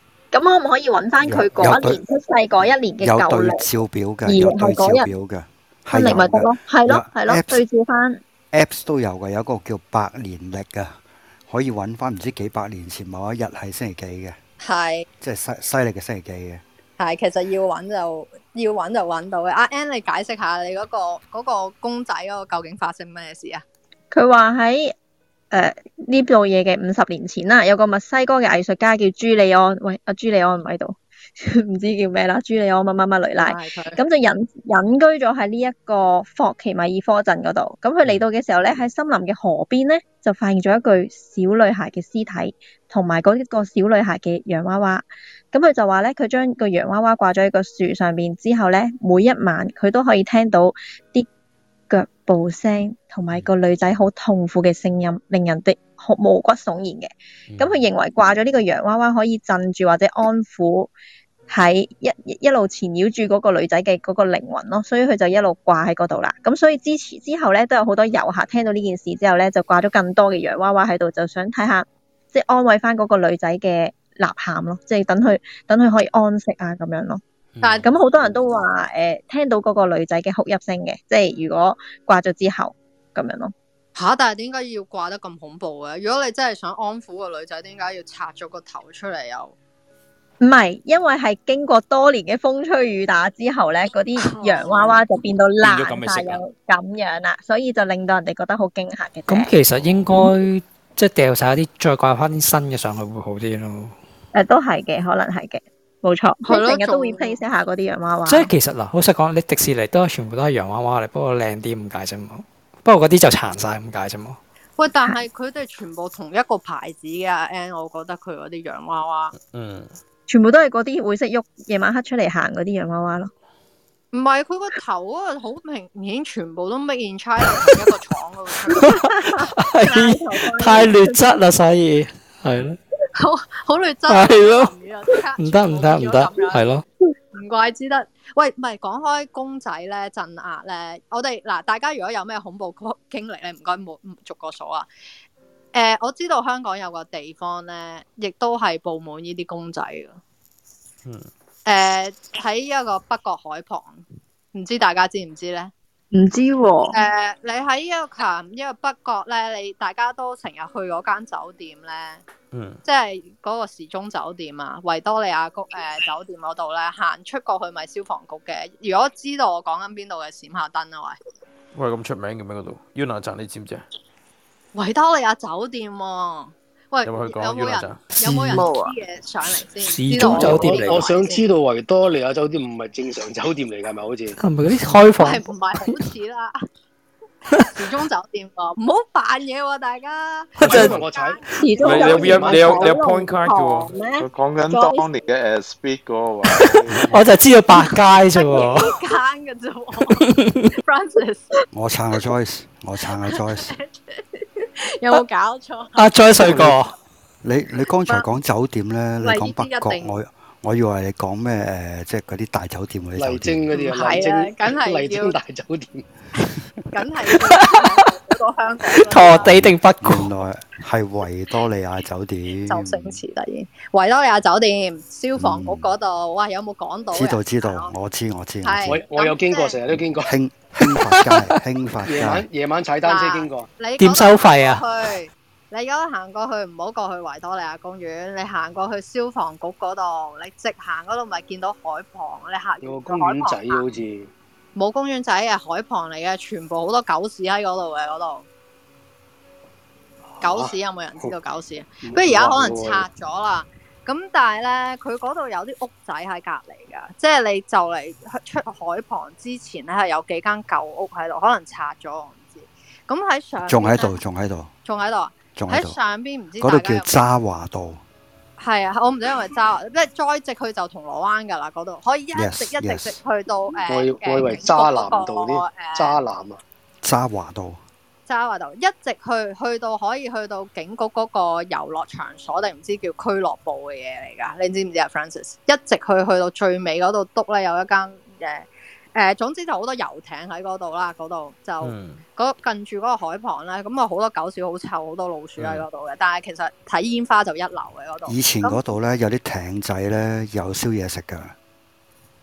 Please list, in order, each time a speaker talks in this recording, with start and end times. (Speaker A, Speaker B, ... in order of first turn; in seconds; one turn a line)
Speaker A: 0.3-3.6
Speaker B: 1.2-2.0
Speaker B: 3.0-7.6
Speaker A: 4.3-5.1
Speaker A: 5.9-8.2
Speaker B: 8.5-14.4
Speaker C: 14.6-15.1
Speaker B: 15.2-16.6
Speaker C: 17.0-23.6
Speaker A: 24.1-24.9
Speaker A: 25.5-51.3
Speaker C: 33.4-34.0
Speaker A: 51.9-60.9
Speaker D: 57.5-57.8
Speaker A: 61.5-83.5
Speaker D: 77.6-78.3
Speaker C: 84.0-89.5
Speaker A: 90.4-99.5
Speaker C: 94.4-94.7
Speaker D: 95.6-96.4
Speaker E: 99.3-104.0
Speaker D: 99.8-100.0
Speaker A: 104.3-108.5
Speaker C: 106.5-107.4
Speaker E: 108.3-114.4
Speaker C: 114.8-119.3
Speaker D: 119.4-120.0
Speaker A: 120.3-123.3
Speaker C: 124.1-128.9
Speaker E: 128.7-132.8
Speaker A: 129.8-131.2
Speaker C: 133.2-136.7
Speaker E: 134.1-134.7
Speaker E: 135.4-136.8
Speaker C: 137.3-144.9
Speaker C: 145.7-150.2
Speaker D: 151.1-151.3
Speaker C: 151.7-155.7
Speaker A: 156.1-157.0
Speaker C: 156.9-162.2
Speaker D: 162.5-162.8
Speaker C: 162.8-171.2
Speaker D: 171.7-173.8
Speaker C: 174.8-181.4
Speaker D: 177.0-178.0
Speaker E: 178.2-178.7
Speaker E: 179.8-181.1
Speaker F: 180.3-184.4
Speaker E: 184.4-186.0
Speaker C: 185.2-186.5
Speaker C: 187.6-191.6
Speaker E: 190.6-191.0
Speaker F: 190.6-192.9
Speaker A: 191.6-195.1
Speaker D: 191.9-193.9
Speaker G: 194.2-197.2
Speaker E: 196.6-198.9
Speaker C: 198.3-200.2
Speaker E: 200.2-200.7
Speaker C: 200.8-201.5
Speaker B: 201.7-203.8
Speaker C: 203.3-206.6
Speaker E: 206.0-206.9
Speaker B: 207.4-213.7
Speaker C: 209.2-210.1
Speaker F: 213.2-216.1
Speaker C: 213.7-215.4
Speaker C: 216.4-219.6
Speaker E: 217.5-217.8
Speaker E: 218.9-220.3
Speaker B: 219.4-223.2
Speaker C: 222.7-227.9
Speaker B: 225.4-225.9
Speaker B: 227.1-229.0
Speaker C: 228.6-229.8
Speaker F: 228.9-230.3
Speaker B: 230.3-232.5
Speaker F: 232.0-233.7
Speaker C: 233.0-243.8
Speaker E: 234.0-234.8
Speaker F: 242.8-244.3
Speaker C: 244.8-248.5
Speaker F: 250.3-251.3
Speaker C: 250.4-264.2
Speaker F: 252.0-253.1
Speaker B: 263.7-264.7
Speaker C: 264.9-267.1
Speaker B: 265.6-266.0
Speaker B: 266.6-268.0
Speaker C: 268.6-276.2
Speaker B: 272.3-273.2
Speaker F: 273.9-276.6
Speaker B: 277.0-277.8
Speaker C: 278.3-298.8
Speaker D: 291.8-292.2
Speaker D: 295.6-295.9
Speaker B: 298.3-301.6